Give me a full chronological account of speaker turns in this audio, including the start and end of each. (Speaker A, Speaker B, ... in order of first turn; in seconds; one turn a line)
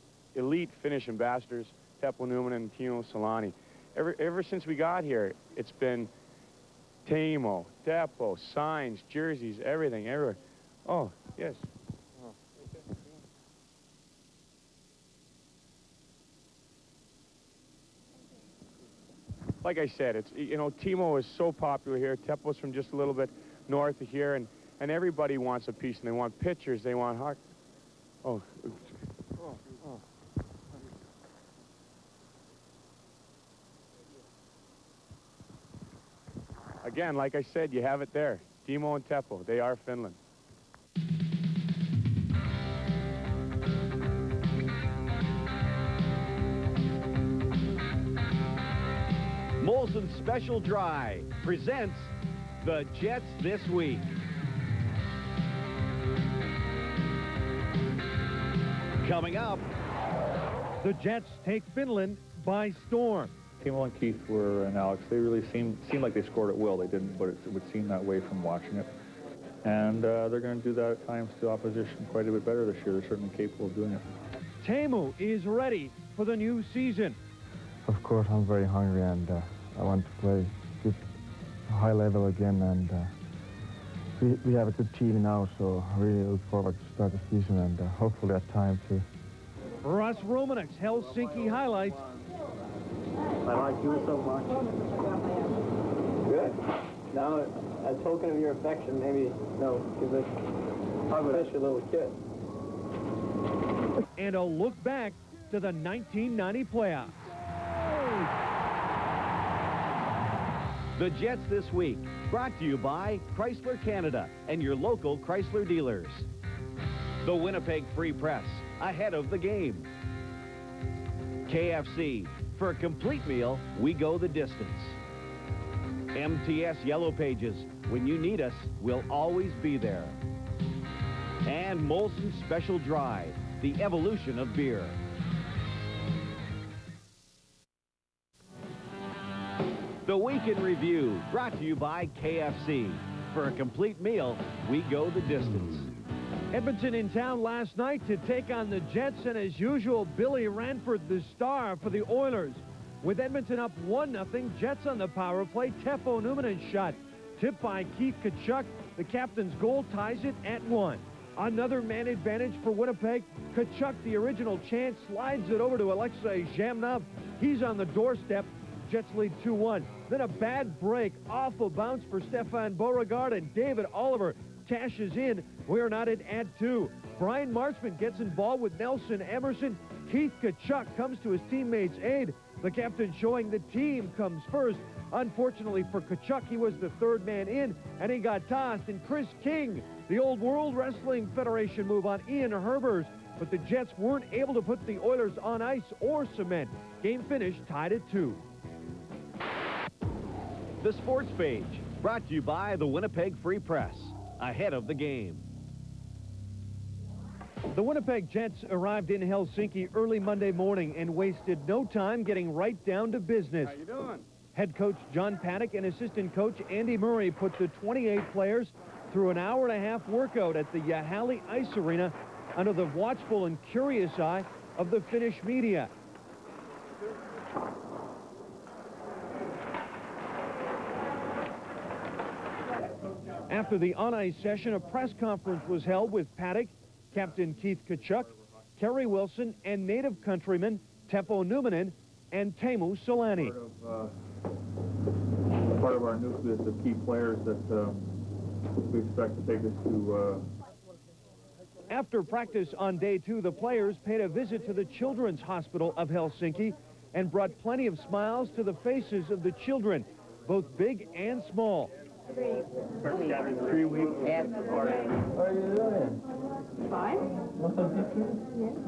Speaker A: 0.3-6.1
Speaker A: 7.0-11.7
Speaker A: 19.6-27.4
Speaker A: 28.2-28.8
Speaker A: 36.8-40.2
Speaker B: 49.6-54.1
Speaker B: 59.0-59.7
Speaker C: 60.8-63.3
Speaker D: 63.6-68.9
Speaker D: 69.6-74.0
Speaker C: 74.6-77.2
Speaker E: 77.9-81.0
Speaker E: 81.7-83.1
Speaker E: 84.2-89.0
Speaker C: 89.8-92.1
Speaker F: 93.5-94.9
Speaker F: 96.2-100.4
Speaker F: 101.1-102.2
Speaker C: 104.2-107.3
Speaker B: 111.0-116.3
Speaker B: 117.2-119.9
Speaker B: 121.5-125.0
Speaker B: 126.1-130.2
Speaker B: 131.4-135.0
Speaker B: 140.1-145.9
Speaker C: 146.5-198.4
Speaker B: 200.8-205.4
Speaker C: 207.7-213.7
Speaker A: 213.6-214.2
Speaker C: 214.5-225.9
Speaker C: 233.5-243.5
Speaker D: 243.3-244.1
Speaker D: 245.7-248.1
Speaker D: 248.8-250.4
Speaker C: 251.9-261.9
Speaker D: 263.0-265.2